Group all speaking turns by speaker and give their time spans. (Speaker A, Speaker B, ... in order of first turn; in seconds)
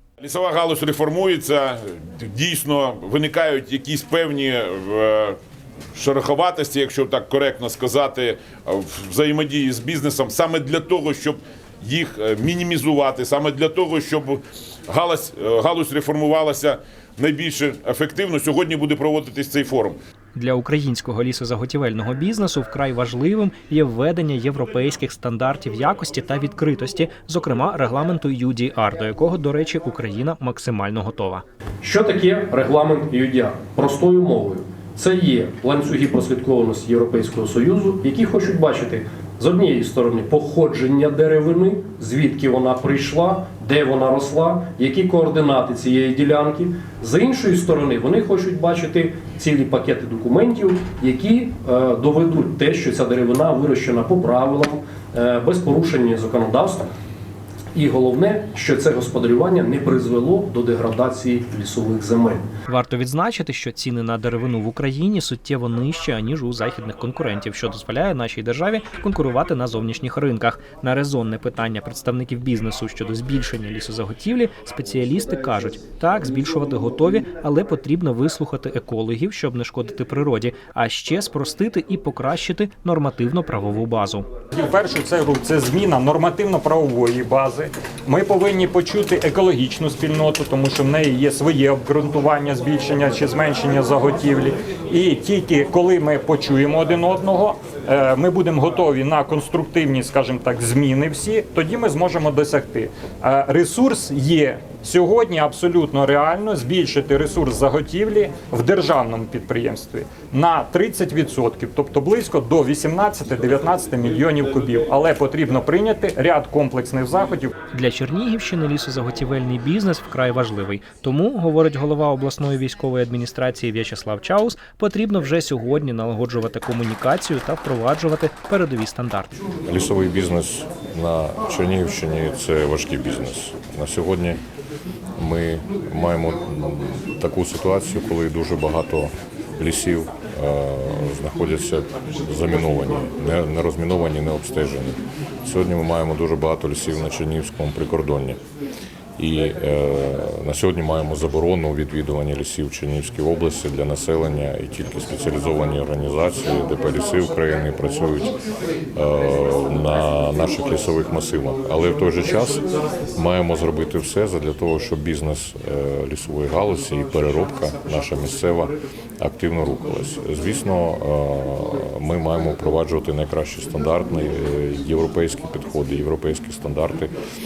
Speaker A: 0.2-5.4, 5.9-20.0
Speaker B: 20.3-31.4, 62.7-84.3, 117.7-129.4
Speaker C: 31.8-56.9, 57.7-62.4
Speaker D: 84.5-117.5
Speaker E: 129.6-134.4, 135.2-148.4, 149.2-158.4, 158.9-177.1